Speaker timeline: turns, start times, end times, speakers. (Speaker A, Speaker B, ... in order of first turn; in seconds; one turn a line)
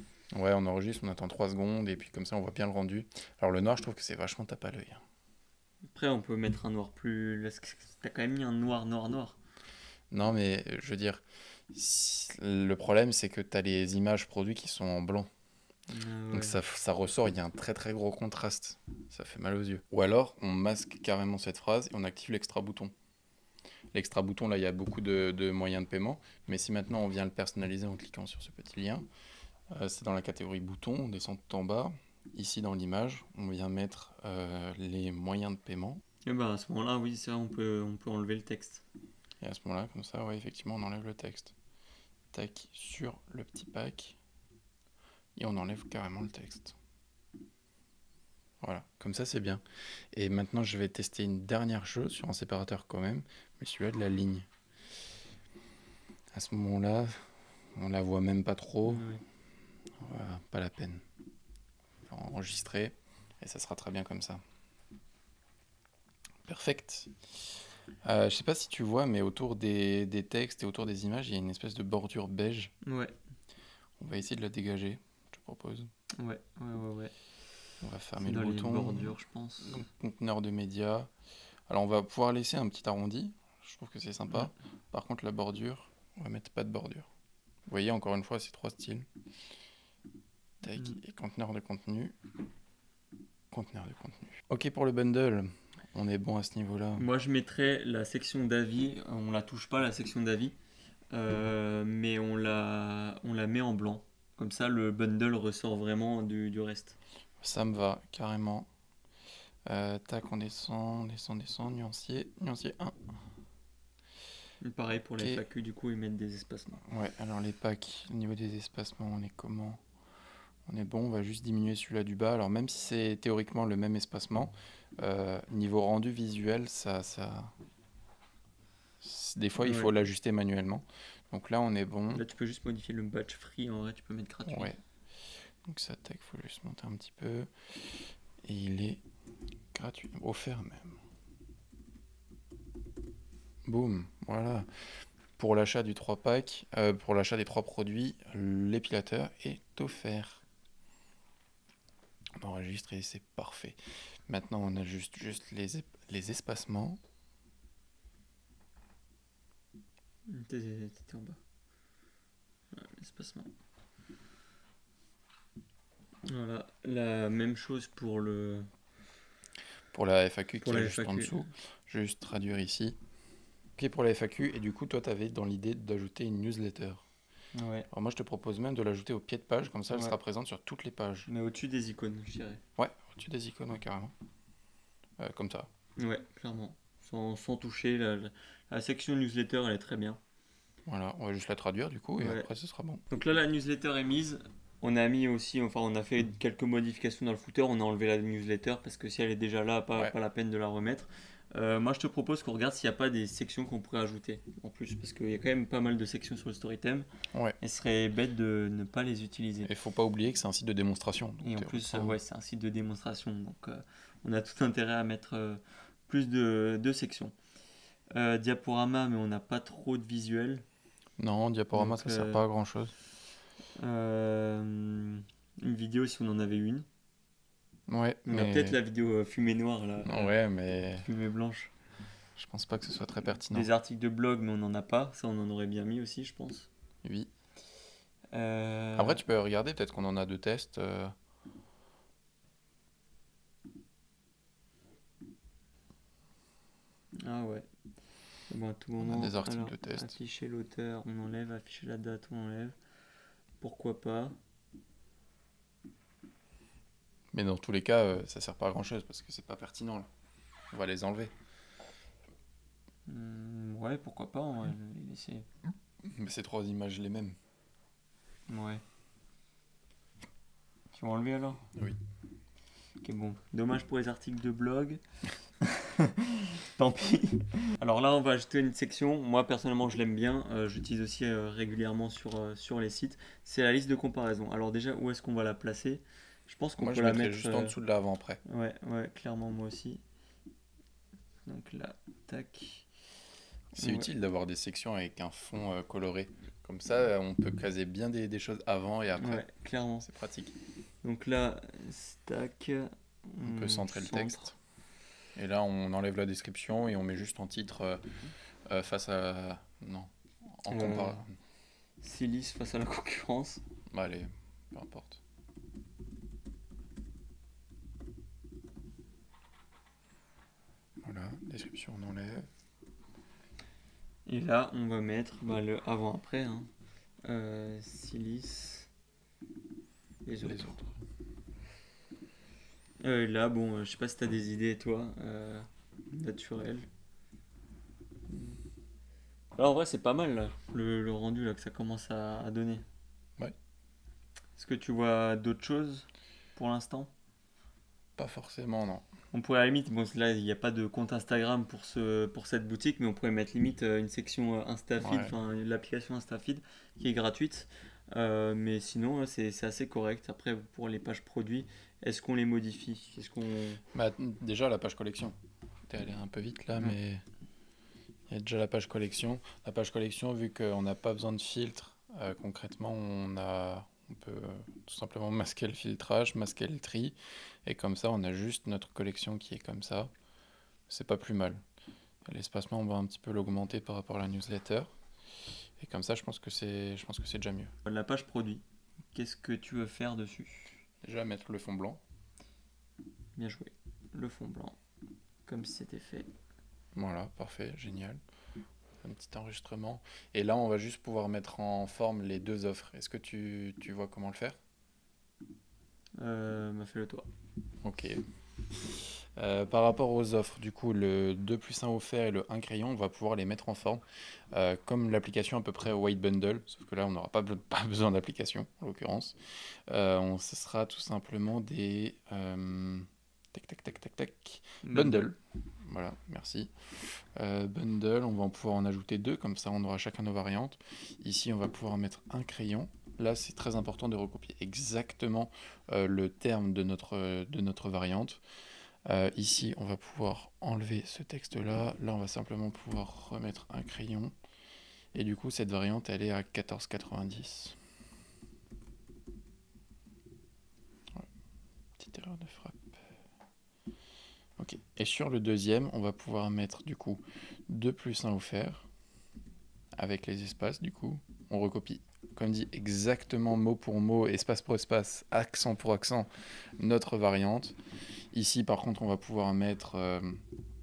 Speaker A: 0.3-5.0
Speaker B: 5.9-9.4
Speaker A: 10.1-11.2
Speaker A: 11.7-15.3
Speaker B: 15.9-16.6
Speaker A: 16.3-22.9
Speaker A: 23.9-29.1
Speaker A: 29.7-36.0
Speaker B: 36.2-38.8
Speaker A: 39.4-41.5
Speaker A: 42.3-44.2
Speaker A: 45.4-46.8
Speaker A: 48.6-54.5
Speaker A: 56.3-59.1
Speaker B: 58.9-59.2
Speaker A: 60.0-61.0
Speaker A: 62.1-64.4
Speaker A: 66.5-67.2
Speaker A: 68.0-72.7
Speaker B: 72.8-73.2
Speaker A: 74.0-75.9
Speaker B: 76.2-77.1
Speaker A: 77.8-81.1
Speaker B: 78.2-79.9
Speaker A: 81.7-87.1
Speaker A: 87.7-89.1
Speaker A: 90.6-92.2
Speaker A: 93.5-97.1
Speaker B: 97.0-100.6
Speaker B: 101.1-107.0
Speaker A: 107.4-108.7
Speaker A: 109.7-113.0
Speaker B: 114.6-116.8
Speaker A: 116.8-119.8
Speaker A: 120.7-127.5
Speaker A: 129.0-132.2
Speaker B: 129.6-129.9
Speaker B: 132.1-134.8
Speaker A: 134.5-134.8
Speaker A: 135.6-137.5
Speaker A: 138.4-139.0
Speaker A: 139.7-141.0
Speaker A: 143.7-144.7
Speaker A: 145.4-150.4
Speaker A: 152.4-157.0
Speaker B: 160.3-161.4
Speaker B: 162.7-163.5
Speaker B: 166.3-168.7
Speaker A: 169.9-173.0
Speaker B: 170.6-171.5
Speaker A: 173.8-177.0
Speaker B: 177.5-177.9
Speaker A: 177.9-181.3
Speaker B: 179.9-180.2
Speaker B: 181.3-182.6
Speaker A: 182.8-184.1
Speaker A: 185.2-185.7
Speaker B: 186.0-190.2
Speaker A: 190.9-193.0
Speaker B: 192.2-192.5
Speaker B: 193.1-207.1
Speaker B: 207.6-209.7
Speaker A: 209.7-212.2
Speaker B: 211.4-217.3
Speaker B: 218.1-220.6
Speaker A: 221.2-222.9
Speaker B: 221.8-222.4
Speaker B: 223.8-226.9
Speaker A: 227.9-228.8
Speaker B: 228.3-230.3
Speaker A: 230.0-231.1
Speaker B: 230.9-231.7
Speaker A: 232.4-233.7
Speaker B: 233.5-236.7
Speaker A: 237.0-237.3
Speaker B: 238.3-239.2
Speaker A: 239.0-241.2
Speaker B: 247.2-247.7
Speaker B: 248.5-252.8
Speaker A: 249.0-250.2
Speaker B: 253.6-254.4
Speaker A: 257.3-260.1
Speaker A: 260.7-261.3
Speaker B: 263.1-265.5
Speaker A: 266.0-267.4
Speaker B: 268.5-268.8
Speaker B: 270.9-271.6
Speaker B: 273.0-275.0
Speaker B: 275.6-287.8
Speaker A: 286.8-288.4
Speaker B: 288.4-290.0
Speaker B: 291.5-292.9
Speaker A: 293.8-299.4
Speaker B: 293.8-294.1
Speaker B: 299.2-300.1
Speaker A: 300.0-300.5
Speaker B: 301.0-304.5
Speaker A: 303.4-304.5
Speaker A: 305.4-308.1
Speaker A: 308.7-311.3
Speaker B: 310.7-311.2
Speaker B: 312.0-313.6
Speaker A: 313.9-315.2
Speaker A: 321.0-322.5
Speaker B: 324.3-326.7
Speaker B: 327.2-328.9
Speaker B: 330.2-330.8
Speaker A: 330.4-330.8
Speaker B: 333.0-336.9
Speaker B: 338.3-338.6
Speaker B: 339.6-342.9
Speaker B: 344.6-347.1
Speaker A: 348.2-349.1
Speaker B: 349.3-363.8
Speaker A: 355.0-355.3
Speaker A: 363.9-365.4
Speaker A: 365.9-367.2
Speaker A: 368.3-380.1
Speaker A: 380.9-381.6
Speaker A: 382.3-384.9
Speaker A: 385.8-387.7
Speaker B: 387.9-390.8
Speaker A: 391.0-392.0
Speaker B: 393.4-394.8
Speaker B: 395.5-396.3
Speaker A: 396.9-398.2
Speaker A: 399.0-404.6
Speaker B: 406.2-407.3
Speaker A: 407.8-408.2
Speaker A: 408.9-438.4
Speaker B: 424.8-425.3
Speaker A: 439.1-444.3
Speaker A: 445.1-447.8
Speaker A: 452.0-453.0
Speaker A: 454.6-458.9
Speaker A: 460.0-467.8
Speaker A: 468.3-470.4